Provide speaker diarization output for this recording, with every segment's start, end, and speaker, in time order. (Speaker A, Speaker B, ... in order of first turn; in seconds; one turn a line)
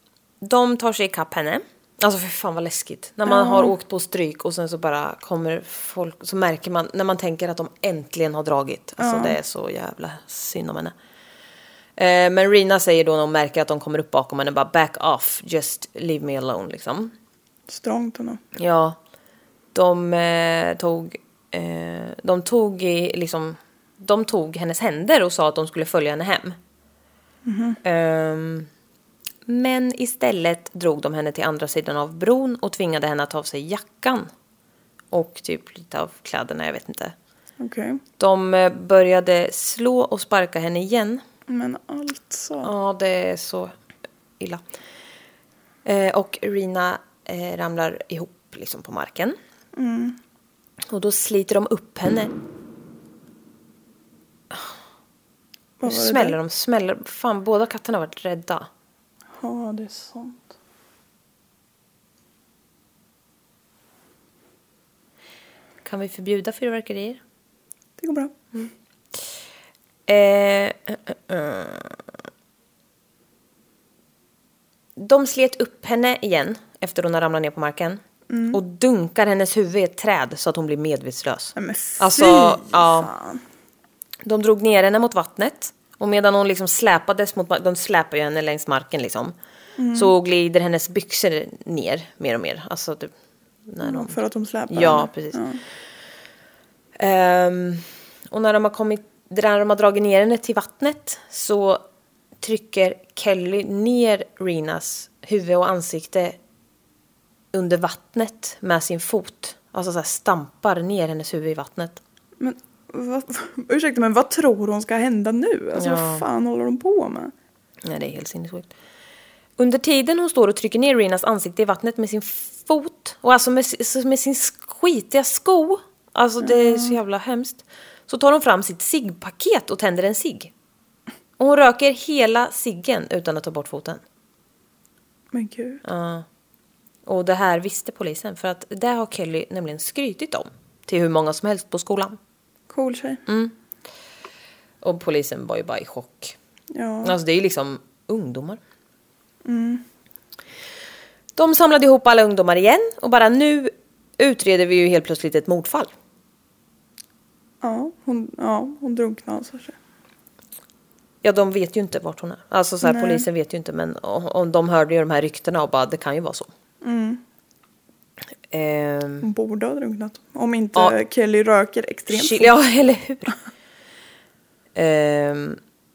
Speaker A: 0.4-10.9
Speaker B: 3.3-3.7
Speaker B: 9.0-9.3
Speaker A: 12.0-17.1
Speaker B: 17.7-18.4
Speaker A: 18.5-19.0
Speaker A: 19.7-26.6
Speaker B: 27.4-27.8
Speaker A: 27.8-28.7
Speaker A: 29.4-34.3
Speaker A: 35.1-37.1
Speaker B: 37.6-38.0
Speaker A: 38.2-41.2
Speaker B: 41.5-42.7
Speaker A: 42.6-43.7
Speaker A: 45.8-49.4
Speaker B: 49.7-50.2
Speaker A: 50.9-52.3
Speaker B: 55.8-56.4
Speaker A: 55.9-58.7
Speaker B: 59.3-60.5
Speaker A: 65.8-67.2
Speaker B: 68.0-68.3
Speaker A: 70.1-72.0
Speaker A: 75.0-83.1
Speaker B: 78.3-78.6
Speaker B: 81.5-83.4
Speaker A: 84.2-89.3
Speaker B: 89.8-90.1
Speaker A: 89.9-93.1
Speaker A: 93.7-94.2
Speaker B: 93.8-95.6
Speaker A: 94.7-95.5
Speaker A: 97.0-101.8
Speaker A: 102.4-106.4
Speaker A: 107.5-112.0
Speaker B: 112.4-117.3
Speaker A: 115.8-116.2
Speaker A: 117.8-118.7
Speaker A: 119.6-130.5
Speaker B: 126.4-127.0
Speaker A: 131.4-134.0
Speaker B: 135.3-135.8
Speaker A: 135.8-136.2
Speaker A: 137.1-142.2
Speaker B: 142.7-143.2
Speaker A: 143.2-143.5
Speaker A: 144.8-146.3
Speaker B: 146.7-147.1
Speaker A: 147.0-148.6
Speaker B: 149.4-149.8
Speaker A: 151.3-155.9
Speaker B: 157.6-159.8
Speaker A: 161.2-166.5
Speaker B: 162.8-163.2
Speaker B: 166.8-167.2
Speaker A: 168.5-169.3
Speaker B: 169.2-172.5
Speaker A: 172.1-173.4
Speaker A: 174.7-175.6